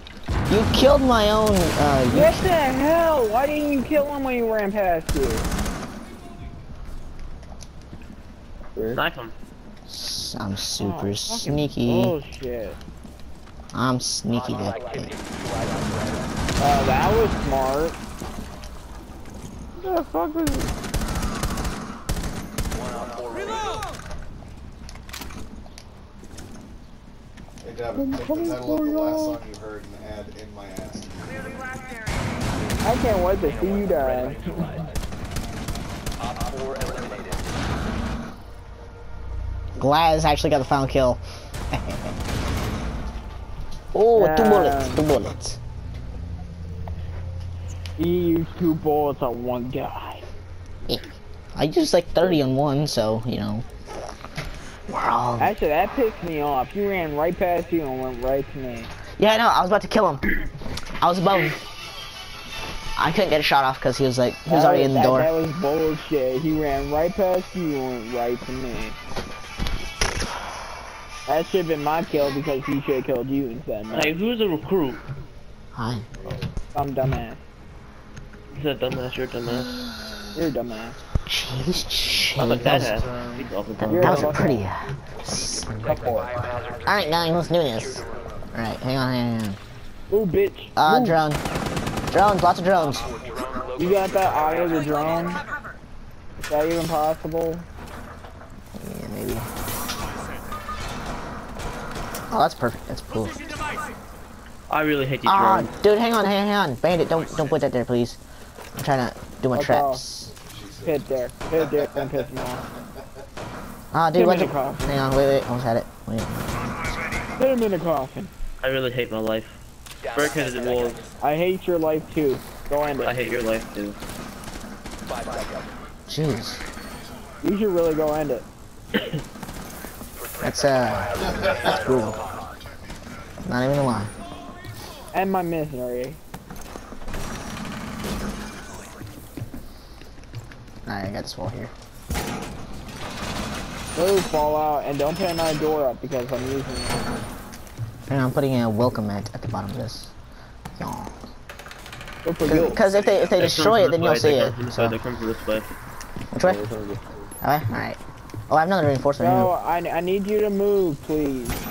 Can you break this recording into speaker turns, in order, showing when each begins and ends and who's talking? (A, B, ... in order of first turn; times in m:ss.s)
0:00.5-0:02.4 A
0:02.1-0:05.5 B
0:08.7-0:09.0 C
0:08.9-0:09.3 D
0:09.9-0:12.1 A
0:10.8-0:12.8 B
0:13.7-0:15.2 A
0:14.3-0:16.3 E
0:16.6-0:18.0 B
0:19.8-0:20.7 B
0:22.8-0:23.8 E
0:27.6-0:31.6 F
0:28.0-0:29.1 C
0:32.6-0:32.8 E
0:32.8-0:34.8 B
0:33.4-0:35.0 E
0:36.2-0:37.5 E
0:39.8-0:42.1 A
0:43.9-0:45.6 A
0:44.1-0:45.0 B
0:48.0-0:50.3 B
0:50.9-0:53.6 A
0:54.9-0:55.5 A
0:55.4-0:58.9 B
0:59.2-1:00.3 A
1:01.0-1:01.6 A
1:03.0-1:05.3 A
1:04.5-1:09.0 B
1:11.2-1:14.1 B
1:13.9-1:15.0 D
1:15.7-1:16.1 A
1:16.7-1:17.4 B
1:18.5-1:19.8 D
1:20.3-1:21.0 B
1:21.2-1:23.1 A
1:22.4-1:24.4 D
1:23.8-1:26.0 A
1:23.9-1:24.7 B
1:25.2-1:28.3 E
1:25.8-1:26.5 C
1:26.8-1:29.6 A
1:30.1-1:30.8 B
1:30.8-1:31.4 A
1:30.8-1:31.2 C
1:32.1-1:33.1 A
1:32.8-1:35.4 E
1:33.7-1:35.4 B
1:36.5-1:37.6 B
1:38.8-1:39.5 A
1:42.3-1:43.5 A
1:44.7-1:45.8 D
1:45.2-1:48.2 A
1:48.8-1:50.3 A
1:49.5-1:50.0 B
1:50.2-1:51.0 F
1:50.8-1:52.6 B
1:51.6-1:52.1 F
1:53.9-1:56.5 A
1:54.1-1:55.0 B
1:57.4-1:58.3 B
1:58.6-1:59.6 D
2:00.0-2:01.0 E
2:00.1-2:01.1 D
2:01.2-2:03.2 B
2:03.0-2:04.0 D
2:05.1-2:05.7 E
2:06.1-2:06.6 A
2:07.4-2:08.4 B
2:10.1-2:12.6 E
2:10.4-2:12.2 A
2:11.2-2:12.2 F
2:13.4-2:14.1 A
2:15.1-2:16.2 B
2:20.8-2:21.7 A
2:23.9-2:27.1 B
2:28.1-2:30.1 A
2:30.8-2:31.1 A
2:32.2-2:32.8 B
2:32.5-2:35.0 A
2:33.3-2:35.7 D
2:36.3-2:36.6 A
2:36.4-2:37.3 C
2:37.4-2:39.5 A
2:39.2-2:41.6 B